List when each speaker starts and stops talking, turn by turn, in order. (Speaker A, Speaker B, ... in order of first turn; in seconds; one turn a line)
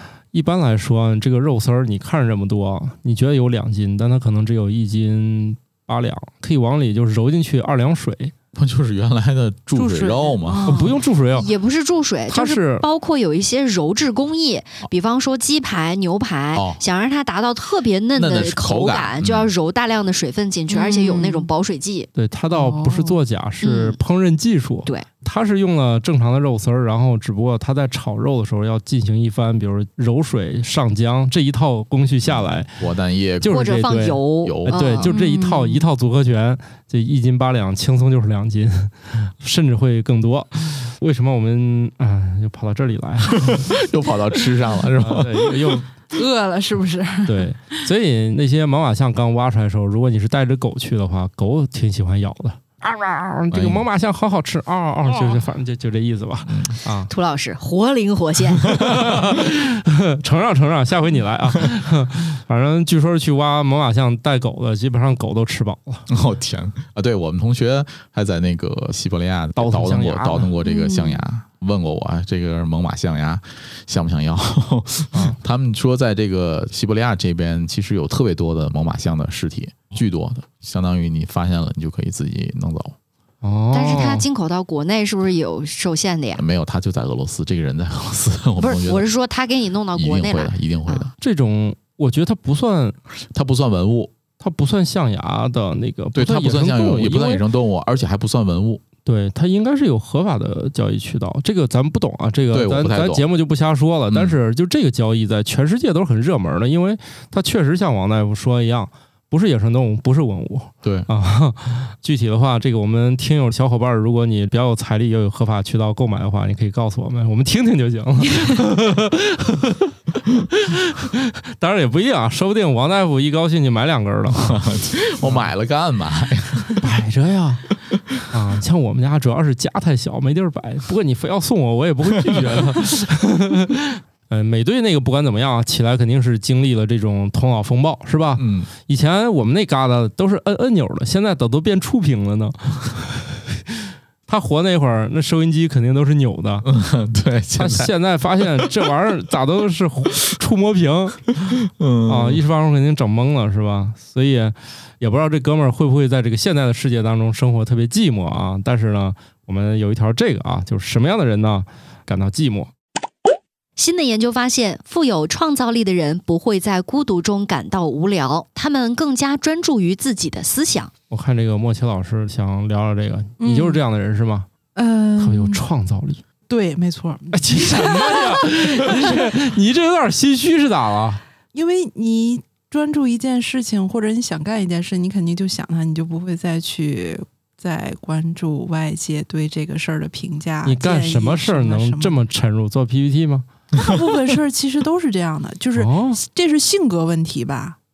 Speaker A: 0.3-8.3
Speaker B: 8.5-10.7
Speaker C: 9.7-11.0
Speaker D: 10.6-22.1
Speaker A: 10.7-11.5
Speaker A: 12.3-12.8
Speaker B: 16.5-16.8
Speaker B: 18.1-19.5
Speaker C: 20.7-21.5
Speaker A: 22.1-32.8
Speaker C: 22.5-23.2
Speaker D: 23.6-24.0
Speaker B: 32.3-33.7
Speaker A: 33.4-43.7
Speaker D: 33.4-35.1
Speaker B: 34.4-34.9
Speaker C: 35.0-35.9
Speaker B: 43.4-45.8
Speaker A: 45.0-45.9
Speaker C: 46.1-47.5
Speaker A: 47.2-57.1
Speaker B: 53.5-53.8
Speaker B: 56.5-56.8
Speaker D: 57.1-58.8
Speaker A: 58.7-66.1
Speaker B: 58.8-59.1
Speaker B: 66.1-82.9
Speaker A: 69.6-70.5
Speaker C: 70.6-71.2
Speaker A: 83.4-84.2
Speaker D: 83.7-86.4
Speaker B: 86.3-89.1
Speaker D: 88.6-91.1
Speaker B: 89.9-91.1
Speaker A: 91.2-93.0
Speaker B: 93.3-94.1
Speaker A: 94.4-97.4
Speaker B: 96.1-98.8
Speaker A: 99.0-124.6
Speaker B: 102.5-103.2
Speaker B: 104.1-104.3
Speaker B: 110.8-111.1
Speaker B: 124.3-126.8
Speaker A: 125.2-125.5
Speaker A: 126.8-127.7
Speaker A: 128.3-143.8
Speaker B: 132.2-132.8
Speaker B: 138.4-138.7
Speaker A: 144.3-146.7
Speaker B: 146.6-147.9
Speaker A: 147.6-151.3
Speaker B: 151.6-152.4
Speaker A: 152.1-162.7
Speaker D: 163.8-170.9
Speaker A: 171.1-174.5
Speaker C: 173.4-173.8
Speaker C: 174.7-175.6
Speaker A: 175.2-176.2
Speaker C: 176.5-179.2
Speaker A: 177.3-181.2
Speaker C: 181.5-192.2
Speaker A: 190.6-193.4
Speaker C: 193.7-197.8
Speaker A: 195.8-196.2